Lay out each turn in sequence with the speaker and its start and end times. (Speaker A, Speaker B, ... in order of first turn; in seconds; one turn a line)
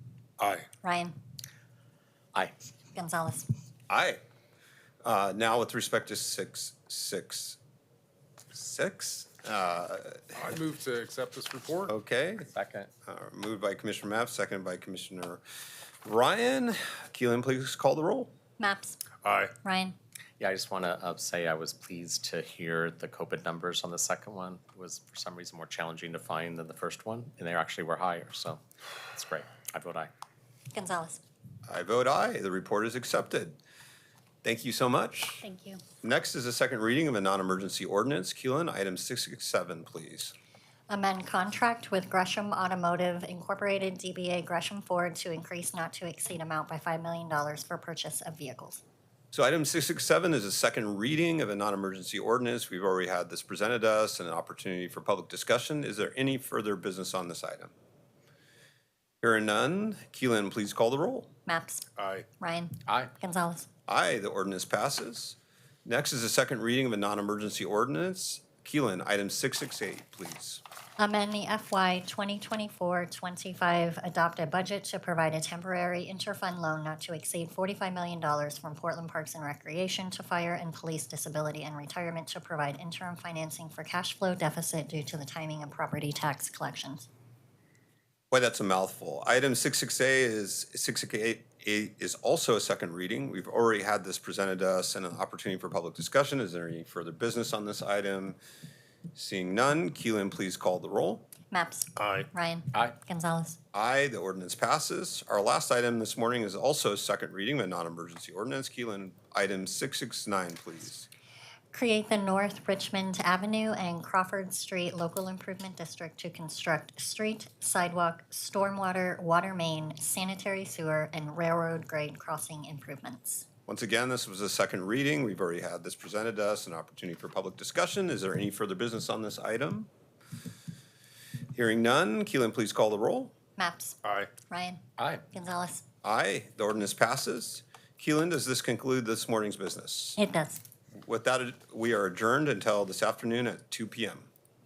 Speaker A: 0.4-0.7
Speaker B: 0.8-1.1
Speaker B: 2.9-3.5
Speaker C: 3.9-4.2
Speaker C: 5.0-7.6
Speaker C: 8.5-10.5
Speaker A: 10.4-11.9
Speaker C: 11.9-12.5
Speaker D: 12.5-12.9
Speaker C: 13.1-15.4
Speaker C: 16.0-18.3
Speaker B: 18.6-19.1
Speaker A: 19.2-19.5
Speaker B: 19.6-19.9
Speaker D: 20.4-28.6
Speaker D: 29.1-30.1
Speaker B: 30.7-31.2
Speaker C: 31.7-33.6
Speaker C: 34.4-35.4
Speaker B: 35.4-35.8
Speaker C: 36.0-40.3
Speaker B: 40.9-48.8
Speaker C: 49.3-57.7
Speaker C: 59.2-61.3
Speaker B: 61.5-61.9
Speaker A: 62.0-62.2
Speaker B: 62.4-63.7
Speaker C: 63.9-70.6
Speaker B: 71.0-87.1
Speaker C: 88.3-98.4
Speaker C: 99.1-101.2
Speaker B: 101.5-103.6
Speaker A: 102.0-102.3
Speaker C: 103.7-111.1
Speaker B: 111.7-123.5
Speaker C: 123.7-129.9
Speaker C: 131.5-133.3
Speaker B: 133.6-134.0
Speaker A: 134.0-134.3
Speaker B: 134.5-135.8
Speaker D: 135.0-135.2
Speaker C: 136.0-140.2
Speaker B: 140.2-140.6
Speaker C: 141.0-144.3